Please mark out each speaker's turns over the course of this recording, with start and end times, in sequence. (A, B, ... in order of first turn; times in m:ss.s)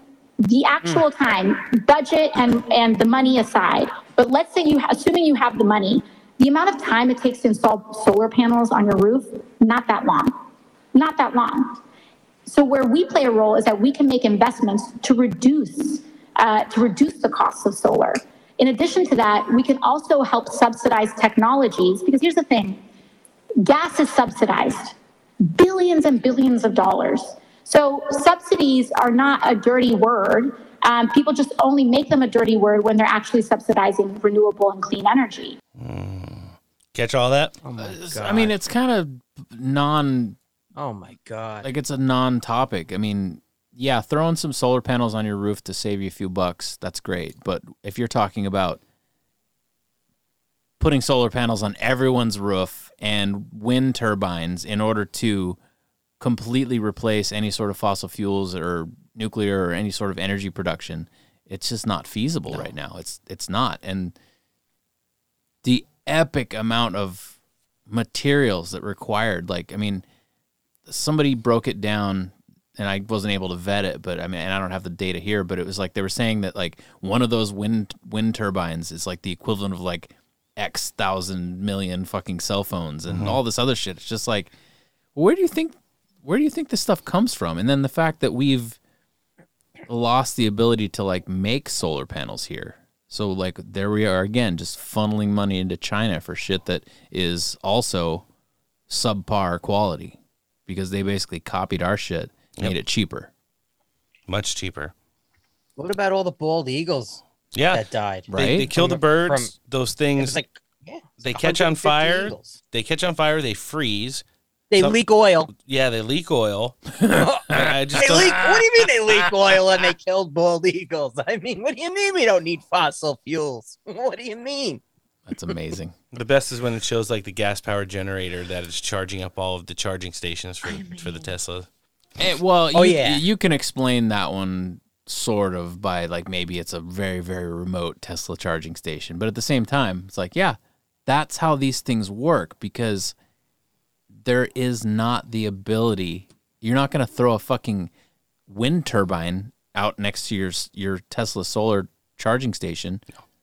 0:00.4-0:10.3 A
0:10.9-0:11.8 A
0:12.4-0:22.8 A
0:23.6-0:24.9 A
0:25.5-0:35.6 A
0:35.8-0:37.6 B
0:37.6-0:38.5 C
0:37.8-0:40.4 D
0:40.8-0:41.7 C
0:41.6-0:48.8 D
0:50.8-0:55.6 D
0:56.2-1:04.2 D
1:05.6-1:10.0 D
1:10.8-1:24.5 D
1:23.1-1:23.4 B
1:25.1-1:28.8 D
1:29.9-1:38.2 D
1:38.9-1:43.3 D
1:44.3-1:44.9 B
1:45.8-1:49.5 C
1:47.5-1:50.4 B
1:48.3-1:48.7 D
1:50.2-1:52.6 C
1:51.2-1:54.2 B
1:54.7-1:55.5 C
1:55.5-1:56.9 B
1:57.1-2:04.8 C
1:57.2-1:58.6 D
1:57.5-1:58.6 B
1:59.2-1:59.9 B
2:05.3-2:05.9 D
2:06.1-2:11.7 B
2:12.2-2:23.1 D
2:12.7-2:13.2 C
2:24.1-2:27.9 D
2:28.5-2:33.0 D